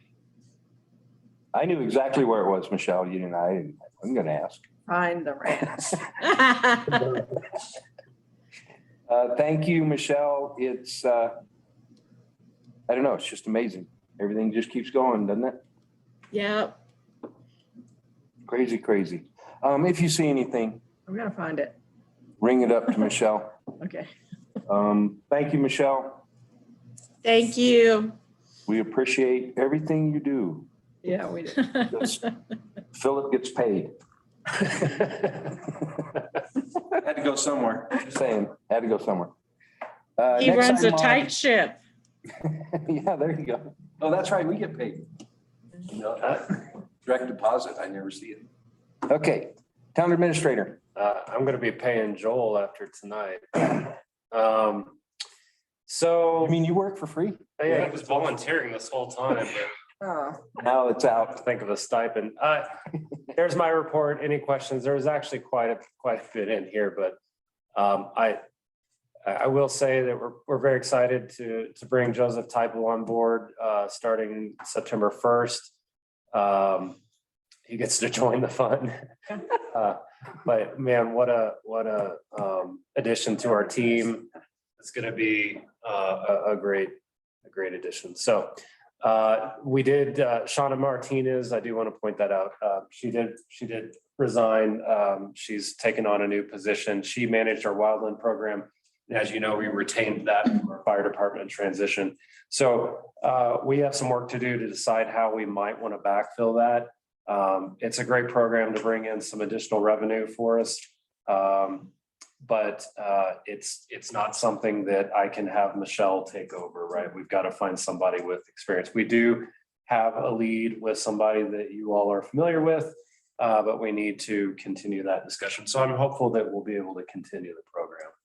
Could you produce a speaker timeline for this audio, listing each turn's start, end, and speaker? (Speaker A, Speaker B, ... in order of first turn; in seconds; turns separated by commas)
Speaker A: 1.5-4.6, Speaker B: 4.9-6.0, Speaker C: 6.2-7.1, Speaker A: 9.1-11.3, Speaker A: 12.9-15.6, Speaker C: 16.3-16.8, Speaker A: 18.5-20.8, Speaker B: 21.1-21.7, Speaker A: 22.4-23.6, Speaker B: 23.8-24.1, Speaker A: 24.7-26.2, Speaker C: 27.2-28.1, Speaker A: 28.7-30.7, Speaker B: 31.0-32.1, Speaker A: 31.9-32.2, Speaker A: 32.9-33.9, Speaker A: 36.9-39.3, Speaker A: 40.2-41.3, Speaker C: 40.4-41.8, Speaker A: 42.4-45.1, Speaker A: 45.9-46.4, Speaker A: 47.0-48.5, Speaker A: 49.1-50.8, Speaker D: 51.0-55.0, Speaker D: 55.9-56.6, Speaker A: 56.4-57.9, Speaker D: 57.6-59.7, Speaker B: 60.0-60.4, Speaker A: 60.6-61.4, Speaker D: 61.3-62.7, Speaker D: 63.3-67.2, Speaker D: 67.8-68.4, Speaker D: 69.2-75.7, Speaker D: 76.3-77.0, Speaker D: 77.7-79.0, Speaker D: 79.6-111.9, Speaker D: 112.4-128.1